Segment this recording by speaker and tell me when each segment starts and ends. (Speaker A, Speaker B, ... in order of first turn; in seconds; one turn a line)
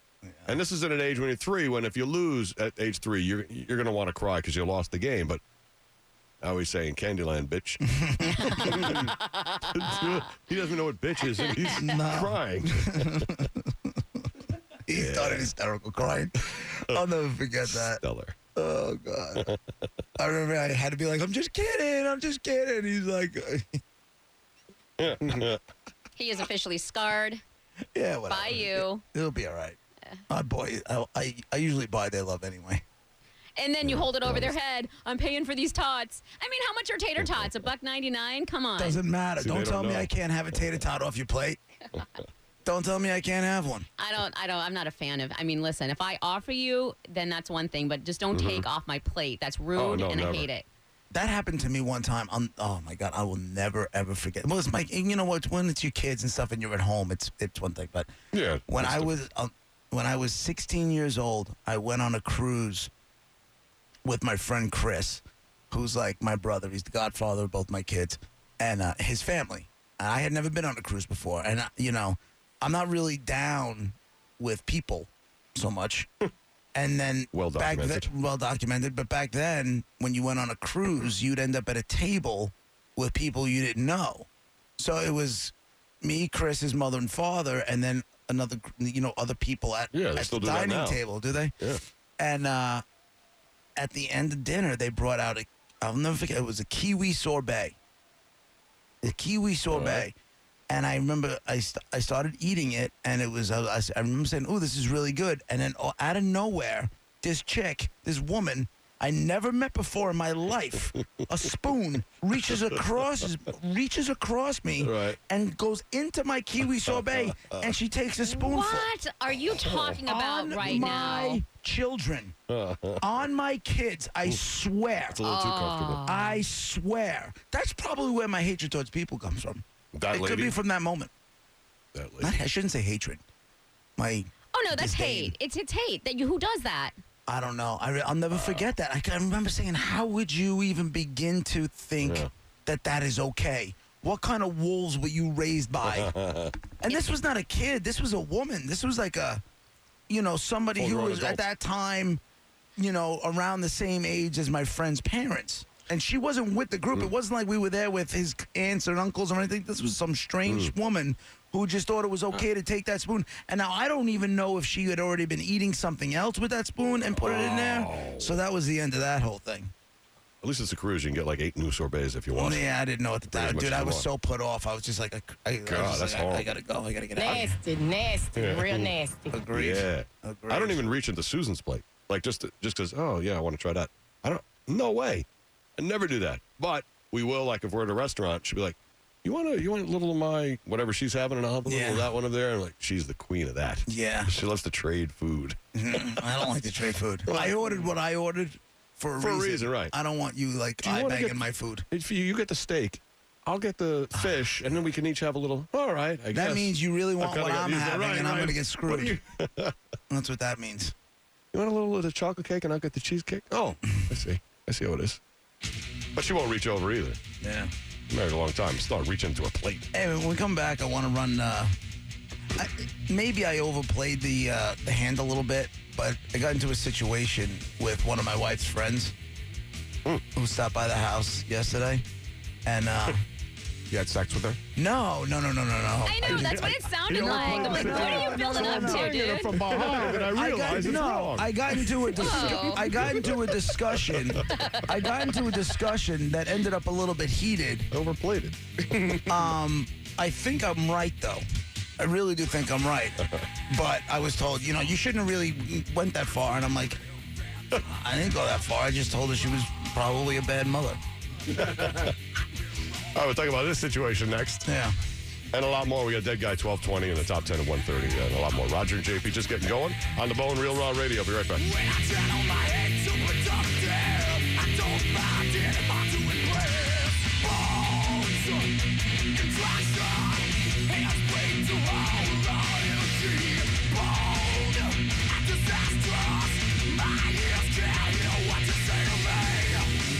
Speaker A: 0.2-0.6
Speaker B: 0.5-5.4
Speaker B: 6.4-9.2
Speaker A: 7.9-9.1
Speaker C: 8.4-9.9
Speaker B: 9.7-13.3
Speaker A: 11.7-13.9
Speaker A: 14.9-18.0
Speaker B: 14.9-15.5
Speaker B: 17.6-18.3
Speaker A: 18.5-19.5
Speaker A: 20.2-23.8
Speaker B: 25.0-25.6
Speaker C: 26.1-27.4
Speaker A: 27.9-29.8
Speaker C: 28.3-29.0
Speaker A: 30.3-32.8
Speaker C: 33.5-39.0
Speaker B: 33.8-34.5
Speaker B: 37.2-37.5
Speaker A: 38.8-41.6
Speaker B: 39.4-40.1
Speaker A: 42.6-43.9
Speaker C: 44.0-50.6
Speaker B: 48.3-48.6
Speaker B: 49.7-50.5
Speaker A: 51.1-58.1
Speaker B: 58.3-59.1
Speaker A: 58.7-62.9
Speaker A: 64.0-76.1
Speaker A: 76.7-91.5
Speaker B: 77.3-78.1
Speaker B: 89.9-91.0
Speaker A: 92.2-92.8
Speaker A: 93.8-97.8
Speaker A: 99.0-100.1
Speaker B: 99.7-100.0
Speaker A: 100.7-118.9
Speaker B: 114.8-115.2
Speaker B: 116.9-117.7
Speaker C: 118.2-121.4
Speaker B: 119.6-120.0
Speaker A: 120.0-122.3
Speaker B: 120.7-121.1
Speaker B: 122.5-123.2
Speaker A: 123.0-125.2
Speaker B: 125.1-126.0
Speaker C: 125.2-126.4
Speaker A: 126.0-131.1
Speaker B: 129.9-130.6
Speaker B: 131.9-132.3
Speaker A: 132.2-133.2
Speaker A: 134.0-135.3
Speaker C: 134.5-136.9
Speaker A: 137.3-146.1
Speaker B: 138.3-138.6
Speaker B: 142.0-142.3
Speaker B: 145.8-146.6
Speaker A: 146.8-149.4
Speaker A: 150.1-152.2
Speaker B: 150.8-151.4
Speaker A: 152.8-169.7
Speaker B: 160.4-160.7
Speaker B: 167.0-168.4
Speaker B: 170.4-172.7
Speaker A: 172.3-177.6
Speaker B: 173.3-174.1
Speaker B: 175.6-176.5
Speaker D: 177.2-179.3
Speaker B: 178.3-179.0
Speaker A: 179.3-180.9
Speaker B: 179.5-185.2
Speaker B: 185.8-195.6
Speaker A: 191.6-192.1
Speaker A: 193.9-194.3
Speaker A: 195.7-201.8
Speaker B: 197.3-197.9
Speaker B: 199.2-199.9
Speaker B: 200.8-209.7
Speaker A: 204.1-204.5
Speaker A: 206.3-209.2
Speaker A: 210.1-210.9
Speaker B: 211.5-215.2
Speaker B: 216.1-217.2
Speaker A: 217.4-217.7
Speaker B: 218.1-219.9
Speaker A: 219.9-221.7
Speaker A: 222.6-229.1
Speaker A: 230.3-232.0
Speaker A: 232.7-233.2
Speaker E: 233.9-234.6
Speaker A: 234.8-247.9
Speaker C: 236.0-239.6
Speaker B: 236.2-244.4
Speaker E: 238.8-240.2
Speaker C: 242.2-243.0
Speaker C: 244.4-245.4
Speaker B: 247.9-249.2
Speaker A: 249.2-251.4
Speaker A: 252.0-257.0
Speaker A: 257.8-261.0
Speaker B: 261.5-262.1
Speaker B: 263.1-264.7
Speaker A: 264.6-264.9
Speaker B: 265.5-271.8
Speaker A: 271.7-278.7
Speaker A: 279.4-289.8